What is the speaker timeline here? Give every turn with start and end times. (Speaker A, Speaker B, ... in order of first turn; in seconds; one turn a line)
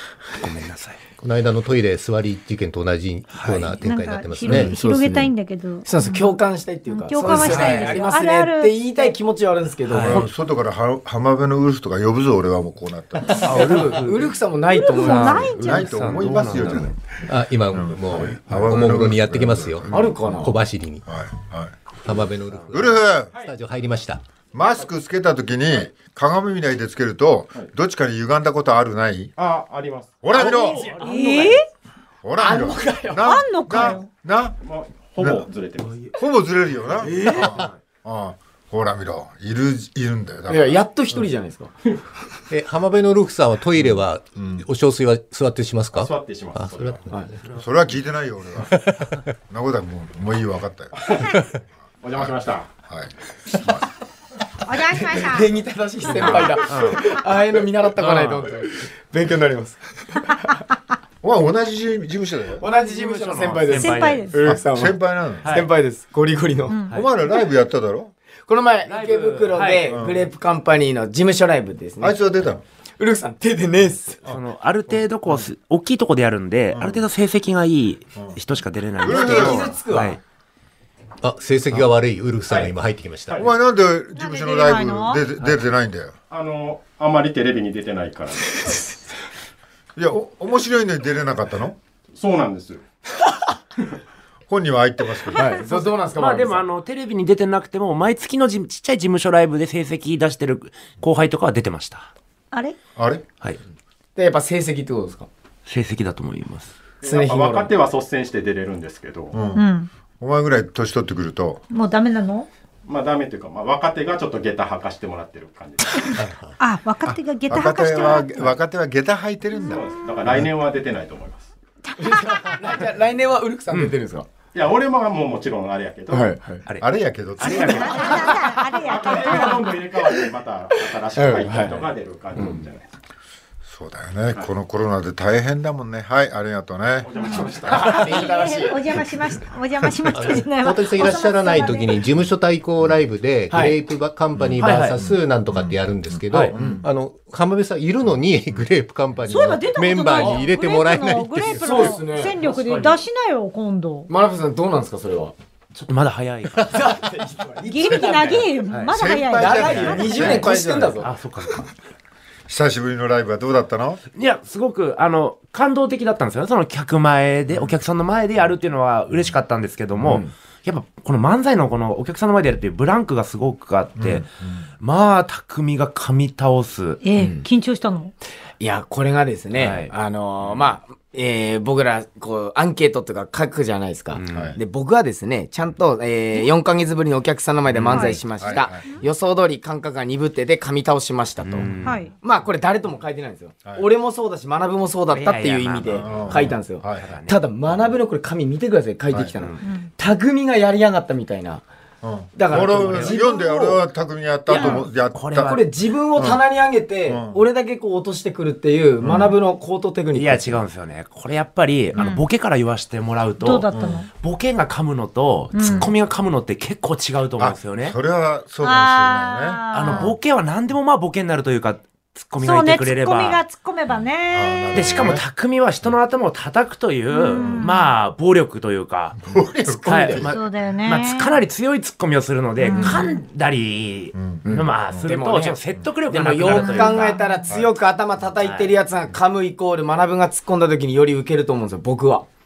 Speaker A: 0.3-1.0
Speaker B: 1.2-4.8
Speaker A: 3.3-3.8
Speaker C: 3.8-9.2
Speaker D: 4.5-5.3
Speaker D: 5.8-10.3
Speaker A: 7.2-8.1
Speaker A: 9.9-10.2
Speaker E: 10.0-13.9
Speaker A: 13.3-14.4
Speaker D: 13.3-15.7
Speaker C: 14.7-16.0
Speaker A: 14.9-16.9
Speaker E: 15.2-17.0
Speaker D: 16.5-16.9
Speaker B: 17.2-19.9
Speaker E: 17.7-20.5
Speaker D: 19.9-20.6
Speaker B: 20.4-21.0
Speaker E: 21.1-21.8
Speaker B: 22.0-24.2
Speaker A: 22.5-22.9
Speaker E: 22.7-23.3
Speaker E: 24.5-29.3
Speaker F: 29.4-31.5
Speaker E: 30.2-30.9
Speaker A: 30.4-31.4
Speaker D: 30.4-31.5
Speaker C: 31.0-31.6
Speaker E: 32.2-34.6
Speaker D: 32.4-33.3
Speaker C: 33.2-34.1
Speaker F: 34.6-36.1
Speaker E: 35.2-35.5
Speaker E: 36.1-40.8
Speaker D: 37.0-37.5
Speaker A: 37.5-37.8
Speaker D: 40.5-41.7
Speaker B: 42.5-47.2
Speaker E: 44.4-44.6
Speaker F: 45.9-47.1
Speaker E: 47.5-48.8
Speaker B: 48.7-49.0
Speaker E: 49.5-51.1
Speaker F: 51.0-51.4
Speaker F: 52.0-52.7
Speaker E: 52.2-53.9
Speaker C: 54.6-55.5
Speaker D: 54.9-60.6
Speaker A: 56.1-57.1
Speaker A: 58.0-58.5
Speaker E: 61.2-62.6
Speaker D: 62.6-66.8
Speaker A: 62.8-64.5
Speaker C: 63.7-64.4
Speaker E: 64.4-65.5
Speaker A: 65.4-65.7
Speaker C: 66.7-67.0
Speaker E: 66.9-68.1
Speaker D: 68.5-72.2
Speaker A: 68.8-70.0
Speaker E: 69.8-70.3
Speaker E: 72.0-72.6
Speaker D: 73.0-74.2
Speaker A: 74.1-80.2
Speaker E: 76.7-77.0
Speaker E: 79.0-79.8
Speaker D: 79.0-80.2
Speaker B: 81.2-83.5
Speaker E: 83.3-86.1
Speaker C: 84.1-85.2
Speaker F: 86.3-88.8
Speaker E: 90.0-91.8
Speaker F: 92.1-92.8
Speaker E: 94.5-95.6
Speaker D: 95.3-96.6
Speaker C: 95.4-95.8
Speaker A: 96.1-102.1
Speaker E: 103.0-103.2
Speaker D: 104.2-105.3
Speaker A: 105.7-106.7
Speaker F: 107.0-109.4
Speaker D: 107.0-107.7
Speaker E: 109.3-109.7
Speaker C: 109.5-109.9
Speaker E: 110.2-111.6
Speaker C: 111.7-112.5
Speaker F: 112.8-116.3
Speaker C: 116.6-118.5
Speaker E: 117.5-120.3
Speaker F: 119.6-121.5
Speaker D: 122.0-124.3
Speaker C: 122.0-122.5
Speaker F: 124.5-126.3
Speaker D: 126.1-126.6
Speaker E: 126.8-128.3
Speaker C: 127.4-129.7
Speaker F: 127.4-132.8
Speaker D: 127.7-130.3
Speaker D: 130.8-132.6
Speaker E: 133.6-137.1
Speaker F: 137.0-138.2
Speaker D: 137.2-139.0
Speaker C: 137.2-142.0
Speaker E: 139.8-140.1
Speaker B: 140.1-151.9
Speaker E: 144.4-146.8
Speaker A: 144.6-145.0
Speaker D: 146.5-146.8
Speaker C: 149.3-154.1
Speaker D: 151.5-152.9
Speaker A: 152.4-152.8
Speaker D: 154.1-155.3
Speaker A: 155.7-156.9
Speaker D: 156.6-158.6
Speaker C: 157.6-160.5
Speaker A: 158.7-158.9
Speaker E: 158.9-161.0
Speaker D: 159.3-161.1
Speaker A: 159.5-161.7
Speaker E: 162.5-164.0
Speaker A: 164.1-174.3
Speaker D: 170.0-170.3
Speaker E: 174.0-174.6
Speaker A: 174.8-177.0
Speaker C: 177.0-178.1
Speaker D: 177.2-177.4
Speaker D: 178.6-201.6
Speaker A: 179.5-180.7
Speaker A: 184.1-184.5
Speaker E: 184.3-184.6
Speaker A: 187.8-188.1
Speaker C: 187.9-189.0
Speaker E: 188.1-188.9
Speaker A: 191.4-192.0
Speaker C: 191.8-192.1
Speaker A: 195.1-197.4
Speaker E: 195.9-197.1
Speaker E: 199.1-199.3
Speaker C: 199.6-199.9
Speaker E: 202.0-205.3
Speaker D: 202.3-203.8
Speaker A: 202.7-203.2
Speaker D: 204.5-210.6
Speaker A: 204.5-205.6
Speaker E: 206.2-206.4
Speaker E: 207.0-207.4
Speaker E: 209.0-209.3
Speaker A: 210.1-217.9
Speaker C: 211.9-212.2
Speaker C: 213.4-214.1
Speaker E: 213.7-214.0
Speaker C: 215.5-215.9
Speaker E: 215.6-215.9
Speaker E: 217.4-220.2
Speaker C: 218.6-220.1
Speaker A: 219.7-223.4
Speaker C: 222.4-225.2
Speaker E: 224.3-225.2
Speaker A: 224.7-229.2
Speaker C: 227.1-227.9
Speaker E: 227.4-227.7
Speaker E: 229.2-230.4
Speaker A: 229.8-237.2
Speaker C: 230.1-231.3
Speaker C: 232.6-233.2
Speaker D: 232.8-233.0
Speaker E: 234.1-235.1
Speaker D: 234.4-235.6
Speaker D: 236.1-242.3
Speaker C: 236.5-237.4
Speaker E: 237.5-237.7
Speaker A: 238.4-238.7